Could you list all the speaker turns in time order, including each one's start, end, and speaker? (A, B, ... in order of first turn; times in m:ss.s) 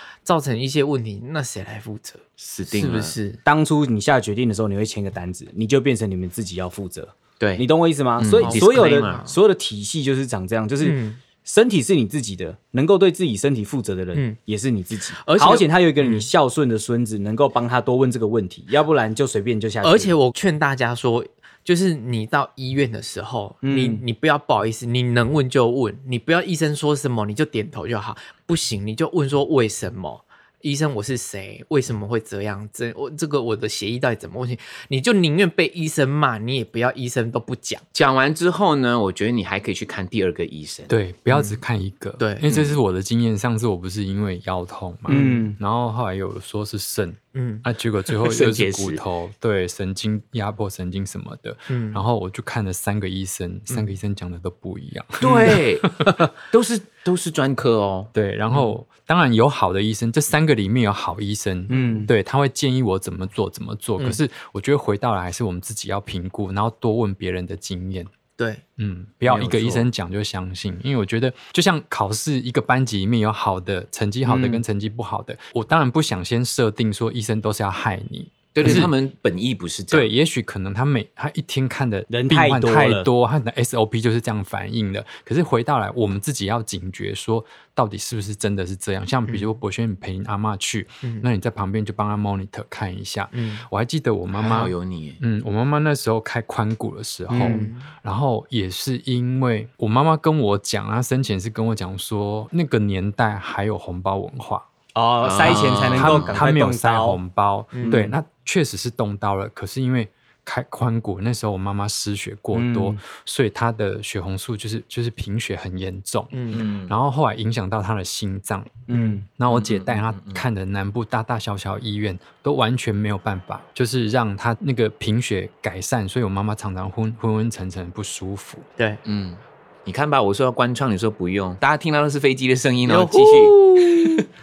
0:00.2-0:03.4 A
0:02.4-0:03.2 B
0:03.4-0:20.1 C
0:07.4-0:09.2 B
0:08.4-0:09.4 A
0:10.8-0:11.2 A
0:15.2-0:16.3 A
0:19.8-0:37.8 A
0:23.6-0:24.0 C
0:37.9-0:40.9 B
0:40.9-0:56.1 D
0:41.3-0:41.6 A
0:42.2-0:42.5 A
0:42.4-0:42.8 B
0:45.1-0:45.4 A
0:45.1-0:45.6 C
0:47.3-0:47.6 A
0:48.2-0:49.0 B
0:51.7-0:52.0 A
0:53.7-0:53.9 A
0:55.2-0:58.1 B
0:58.1-1:08.1 D
1:01.7-1:02.1 C
1:08.8-1:18.9 D
1:09.2-1:09.8 C
1:14.2-1:14.6 A
1:18.5-1:20.1 B
1:19.9-1:44.6 D
1:22.1-1:23.1 C
1:33.3-1:33.6 A
1:34.3-1:35.2 B
1:37.3-1:37.9 A
1:37.3-1:37.7 C
1:44.9-1:47.2 C
1:45.2-1:46.4 B
1:45.4-2:08.6 D
1:47.7-1:48.1 A
1:52.5-1:53.0 C
1:56.3-1:56.7 A
1:56.5-1:56.9 B
1:58.9-1:59.2 C
1:59.5-2:00.4 B
2:09.0-2:14.3 B
2:12.8-2:14.1 A